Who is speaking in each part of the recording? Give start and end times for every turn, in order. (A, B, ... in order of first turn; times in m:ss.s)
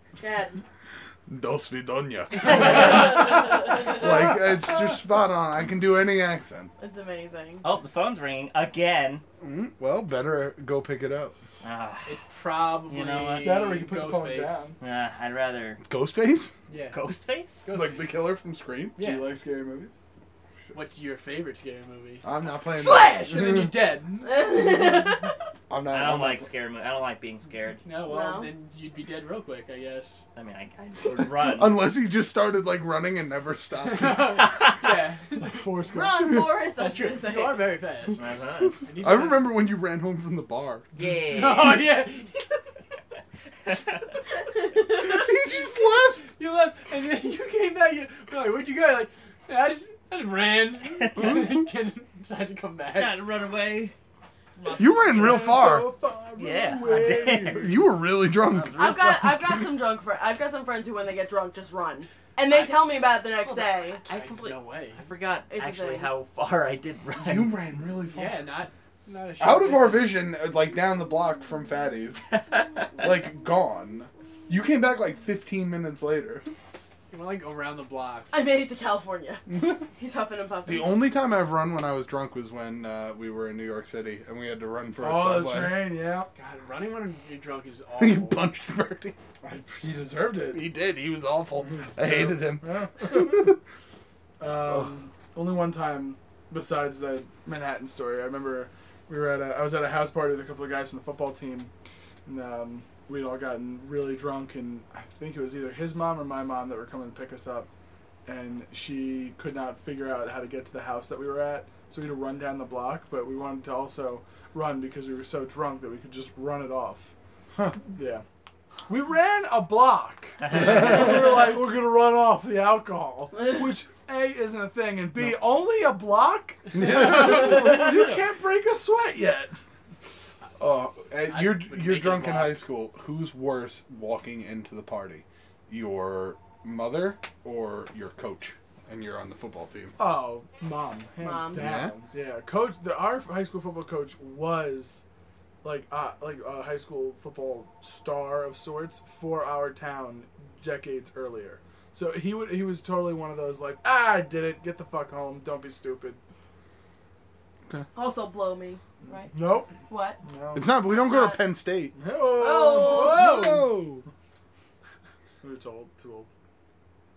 0:00.2-0:00.6 A
0:01.3-0:06.7 B
0:02.5-0:03.2 C
0:06.8-0:07.6 A
0:07.6-0:09.2 C
0:09.4-0:11.4 B
0:11.6-0:12.2 C
0:12.1-0:14.7 D
0:12.9-0:13.6 C
0:13.4-0:14.8 E
0:14.8-0:15.8 C
0:15.8-0:16.5 B
0:16.7-0:17.0 D
0:16.9-0:17.6 C
0:17.6-0:18.1 D
0:17.7-0:19.0 B
0:19.0-0:19.4 D
0:19.0-0:20.0 E
0:20.7-0:22.2 D
0:22.2-0:23.8 B
0:22.8-0:24.4 D
0:24.2-0:25.3 A
0:25.7-0:26.5 B
0:25.9-0:27.8 C
0:27.8-0:30.2 D
0:28.0-0:28.5 A
0:30.4-0:31.8 C
0:31.1-0:34.5 B
0:33.8-0:35.7 D
0:34.4-0:34.8 C
0:35.5-0:36.5 E
0:35.9-0:37.6 A
0:36.8-0:38.2 D
0:38.1-0:38.8 C
0:38.7-0:40.9 B
0:38.8-0:39.5 D
0:41.0-0:41.9 C
0:41.2-0:42.4 D
0:43.7-0:44.1 C
0:44.5-0:45.3 A
0:44.9-0:46.3 B
0:46.3-0:53.3 D
0:51.0-0:51.4 C
0:51.2-0:51.6 B
0:53.0-0:53.9 C
0:54.6-0:55.4 C
0:54.8-0:55.9 B
0:55.1-0:57.7 E
0:56.4-0:59.3 C
0:57.5-0:59.7 B
0:58.8-1:04.0 A
1:02.5-1:02.8 C
1:03.4-1:07.5 C
1:04.1-1:05.0 D
1:05.5-1:06.1 A
1:07.2-1:08.4 B
1:08.1-1:10.2 D
1:09.4-1:12.2 B
1:12.3-1:13.1 C
1:13.0-1:16.5 B
1:17.1-1:18.3 D
1:18.3-1:21.0 A
1:19.5-1:19.8 B
1:20.6-1:26.0 B
1:25.0-1:26.3 E
1:26.4-1:28.4 D
1:28.0-1:29.2 B
1:29.4-1:30.6 E
1:30.5-1:33.6 B
1:31.6-1:33.6 E
1:34.4-1:41.7 E
1:34.6-1:34.9 B
1:42.2-1:47.7 E
1:48.3-1:57.1 E
1:57.8-1:58.2 E
1:58.9-2:09.6 E
2:06.7-2:08.2 B
2:10.6-2:20.0 B
2:11.3-2:12.6 D
2:20.0-2:25.0 E
2:21.2-2:21.7 A
2:21.6-2:22.0 B
2:25.6-2:36.2 E
2:38.0-2:40.2 A
2:39.3-2:40.7 E
2:40.5-2:42.0 B
2:41.0-2:41.4 A
2:42.0-2:43.6 E
2:42.3-2:43.2 A
2:42.7-2:43.7 D
2:43.2-2:44.0 B
2:45.4-2:46.3 E